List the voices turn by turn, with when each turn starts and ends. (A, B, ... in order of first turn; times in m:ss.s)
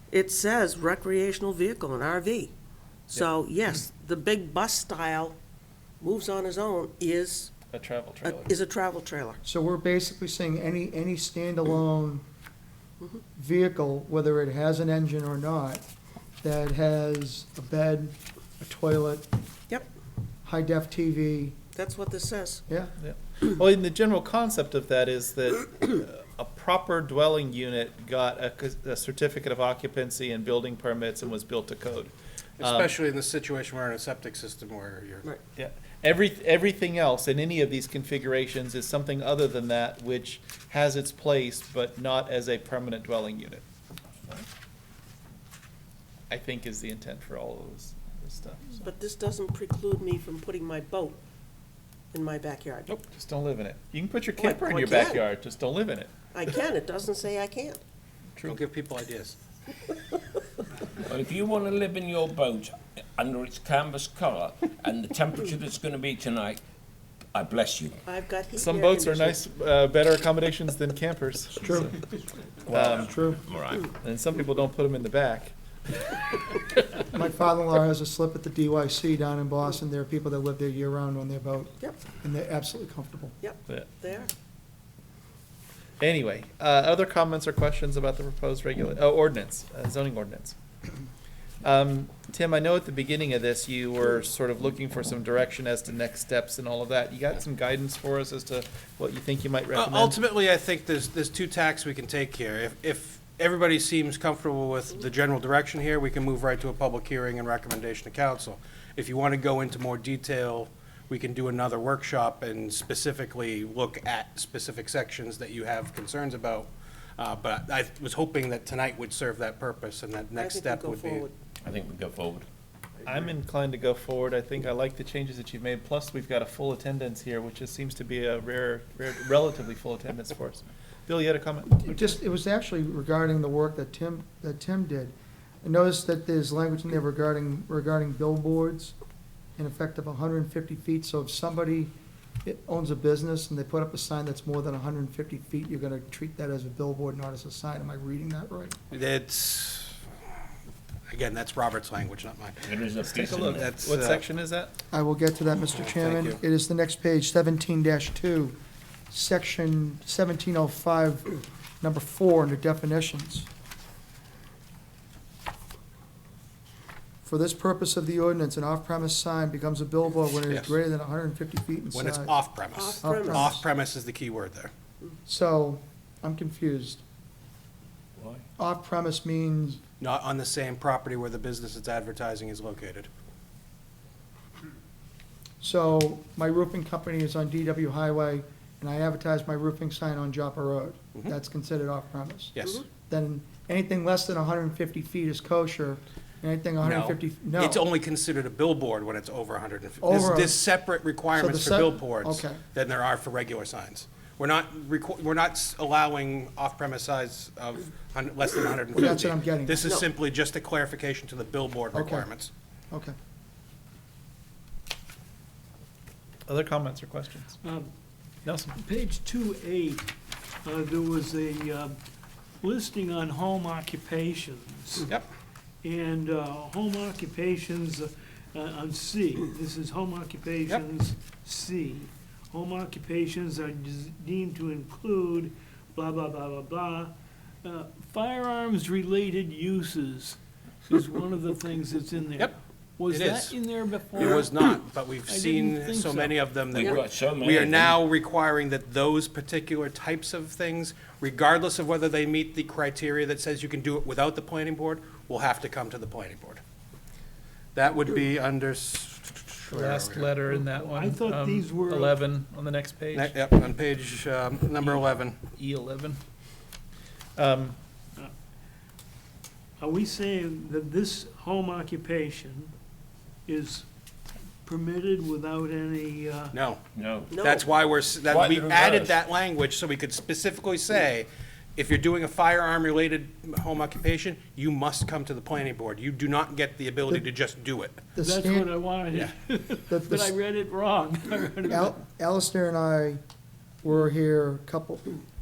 0:00.1-0:02.5 A
0:03.1-0:05.4 A
0:06.0-0:07.5 A
0:07.7-0:08.6 B
0:08.2-0:09.4 A
0:09.4-0:12.2 C
0:13.4-0:15.8 C
0:16.4-0:19.3 C
0:20.4-0:21.6 C
0:21.7-0:22.6 A
0:23.0-0:32.9 B
0:32.6-0:35.3 D
0:35.6-0:43.6 B
0:46.3-0:48.9 B
0:48.8-0:51.2 A
0:52.1-0:53.0 A
0:53.1-0:56.1 B
0:54.4-0:55.2 A
0:56.3-0:57.8 A
0:58.4-0:58.6 B
0:58.4-0:59.4 D
1:01.0-1:06.6 E
1:07.3-1:07.9 E
1:08.0-1:09.4 A
1:08.6-1:11.9 B
1:11.6-1:11.9 C
1:12.7-1:13.2 B
1:12.8-1:13.4 C
1:13.5-1:13.8 E
1:14.0-1:15.5 B
1:17.0-1:23.4 C
1:23.4-1:24.3 A
1:26.0-1:30.6 B
1:31.6-1:40.2 B
1:39.7-2:01.2 D
2:00.3-2:01.3 A
2:01.6-2:02.5 E
2:03.0-2:11.9 B
2:11.6-2:18.9 C
2:19.6-2:21.9 C
2:22.4-2:28.8 C
2:28.9-2:30.0 D
2:31.1-2:32.7 D
2:32.7-2:33.6 E
2:33.0-2:34.7 B
2:33.5-2:34.2 D
2:34.9-2:38.6 C
2:35.7-2:36.4 D
2:39.1-2:43.5 C
2:47.2-2:52.4 C
2:50.5-2:50.8 D
2:51.9-2:54.7 D
2:52.7-2:53.6 A
2:53.0-2:53.6 C
2:55.2-2:57.0 C
2:58.2-2:58.4 E
2:58.6-2:59.8 C
3:00.0-3:03.1 D
3:05.6-3:17.8 C
3:12.6-3:12.8 D
3:16.8-3:32.5 D
3:20.0-3:20.6 C
3:21.3-3:22.6 C
3:28.9-3:29.8 C
3:31.9-3:32.3 C
3:36.5-3:37.6 B
3:37.6-3:37.9 F
3:38.4-3:38.8 B
3:38.7-3:40.1 F
3:40.6-3:42.0 F
3:42.6-3:45.1 F
3:45.8-3:57.1 F
3:57.6-4:06.5 F
4:03.1-4:03.5 D
4:04.1-4:16.6 D
4:06.9-4:07.6 E
4:17.7-4:20.3 D
4:19.7-4:23.3 B
4:20.5-4:22.2 F
4:23.1-4:25.4 D
4:24.8-4:26.2 B
4:27.4-4:27.8 B
4:29.8-4:32.7 F
4:33.5-4:33.8 F
4:34.6-4:36.5 F
4:36.5-4:36.8 D
4:36.9-4:37.3 E
4:37.3-4:37.6 A
4:37.4-4:48.1 D
4:38.3-4:39.1 E
4:48.2-4:48.7 C
4:48.2-4:51.9 F
4:49.9-4:50.3 C
4:51.7-4:53.2 C
4:53.8-4:55.1 C